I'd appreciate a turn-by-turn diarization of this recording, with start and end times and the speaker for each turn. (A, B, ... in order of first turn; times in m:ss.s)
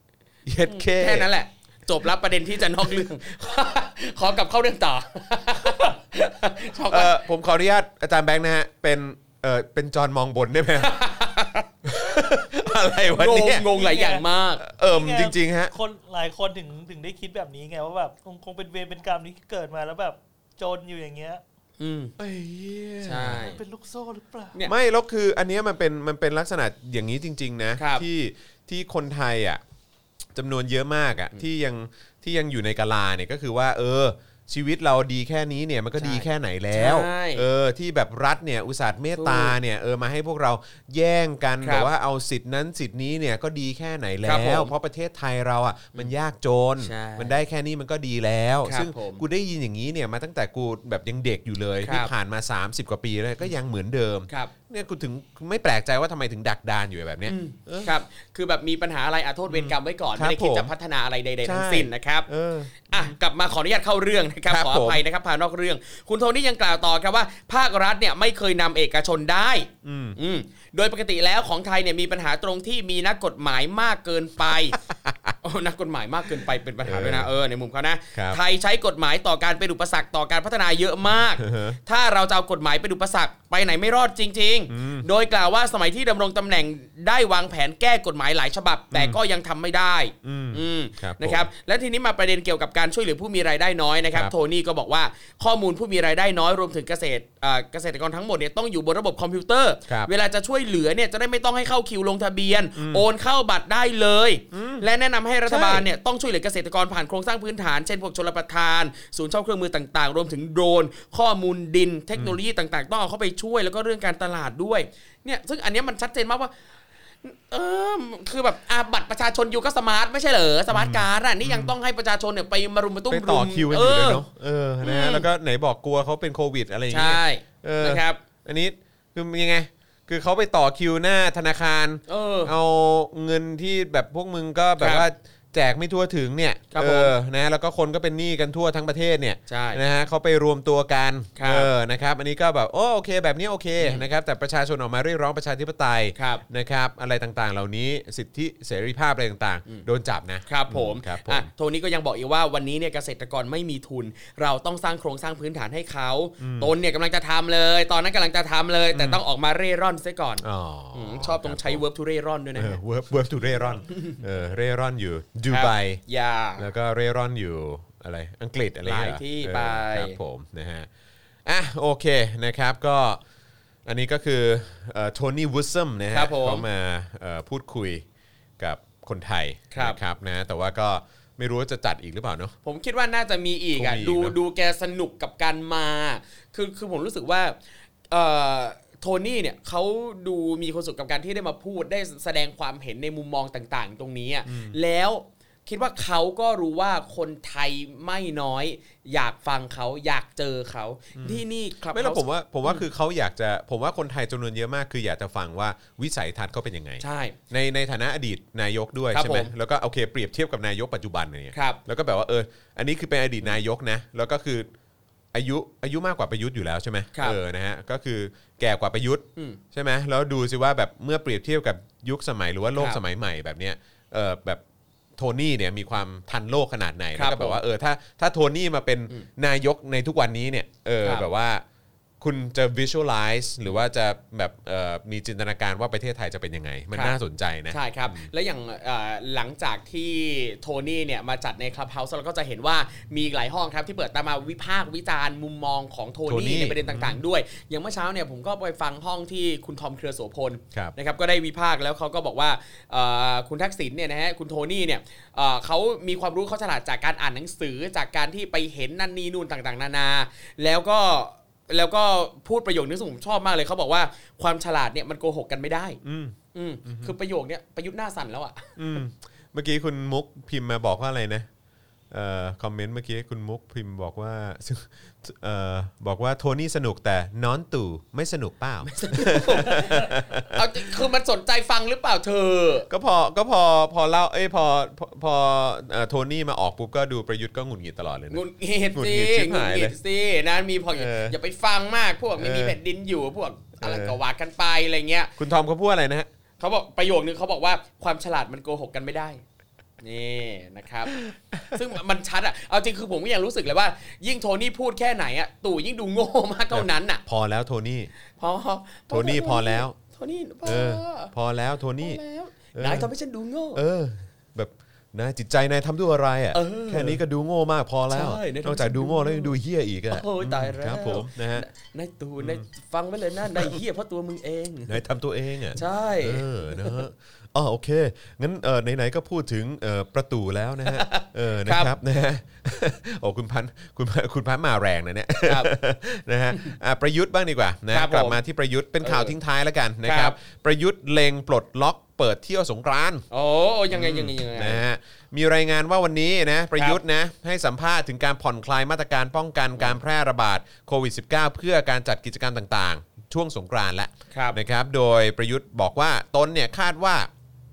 0:00.4-0:01.3 A
0:00.6-0:07.1 B
0:06.9-0:10.9 A
0:10.8-0:11.7 B
0:11.8-0:13.7 A
0:13.1-0:14.6 B
0:13.7-0:14.2 C
0:14.6-0:15.7 A
0:14.8-0:21.4 C
0:21.8-0:22.1 B
0:22.2-0:23.4 A
0:23.0-0:23.6 B
0:23.2-0:24.6 C
0:24.6-0:29.6 A
0:27.8-0:28.0 B
0:30.3-0:57.9 A
0:36.0-0:37.4 B
0:39.2-0:39.6 B
0:41.6-0:41.9 B
0:44.2-0:44.7 B
0:46.8-0:47.4 B
0:48.6-0:49.2 B
0:51.8-0:52.1 B
0:57.3-1:14.8 B
0:59.5-1:00.7 A
1:01.4-1:03.2 A
1:04.5-1:05.0 A
1:09.8-1:10.2 A
1:14.5-1:15.3 A
1:15.4-1:56.6 B
1:16.8-1:17.3 A
1:18.1-1:18.4 A
1:21.4-1:21.8 A
1:24.7-1:25.1 A
1:28.9-1:29.2 A
1:30.2-1:31.5 A
1:42.8-1:43.0 A
1:44.5-1:44.8 A
1:45.4-1:45.8 A
1:57.2-2:04.2 B
2:00.7-2:01.7 A
2:03.1-2:31.5 A
2:04.8-2:05.3 B
2:06.9-2:08.2 B
2:12.1-2:12.5 B
2:14.8-2:15.0 B
2:16.7-2:17.1 B
2:19.5-2:19.8 B
2:21.4-2:21.7 B
2:23.8-2:24.0 B
2:26.1-2:26.4 B
2:30.4-2:42.8 B
2:36.4-2:36.7 A
2:38.9-2:39.2 A
2:40.4-2:41.8 A
2:42.6-2:46.0 A
2:43.5-2:44.2 B
2:45.5-2:46.6 B
2:46.6-2:50.9 A
2:48.8-2:50.2 B
2:51.4-2:53.2 A
2:53.8-2:58.0 A
2:56.1-2:56.6 B
2:58.6-3:02.5 A
2:59.7-3:00.0 B
3:02.6-3:07.6 B
3:03.8-3:04.4 A
3:08.1-3:22.8 B
3:14.4-3:14.8 A
3:21.2-3:34.7 A
3:27.0-3:27.4 B
3:29.1-3:29.5 B
3:31.5-3:31.8 B
3:35.3-3:44.6 A
3:45.2-3:51.6 A
3:47.1-3:47.6 B
3:52.2-3:58.3 A
3:57.7-4:26.0 B
4:06.3-4:07.2 A
4:26.0-4:27.1 A
4:26.5-4:28.8 B
4:28.8-4:31.5 A
4:32.1-4:41.0 A
4:38.8-4:42.9 B
4:42.9-4:48.4 A
4:48.3-4:55.4 B
4:48.9-4:49.9 A
4:50.9-4:51.4 A
4:52.4-4:52.8 A
4:53.8-4:54.1 A
4:55.4-4:56.3 A
4:56.6-4:59.4 B
5:00.0-5:01.2 B
5:01.2-5:01.8 A
5:01.7-5:07.2 B
5:06.7-5:08.1 A
5:08.4-5:11.3 B
5:09.1-5:10.0 A
5:10.6-5:12.2 A
5:12.0-5:13.8 B
5:12.7-5:13.1 A
5:13.7-5:21.6 A
5:16.5-5:17.2 B
5:18.1-5:19.5 B
5:20.1-5:25.0 B
5:22.4-5:22.6 A
5:23.5-5:23.8 A
5:24.9-5:43.2 A
5:25.7-5:27.0 B
5:30.8-5:31.9 B
5:35.4-5:35.7 B
5:37.9-5:38.4 B
5:39.0-5:39.3 B
5:40.0-5:40.3 B
5:43.3-5:44.8 B
5:43.9-5:57.3 A
5:54.3-5:54.6 B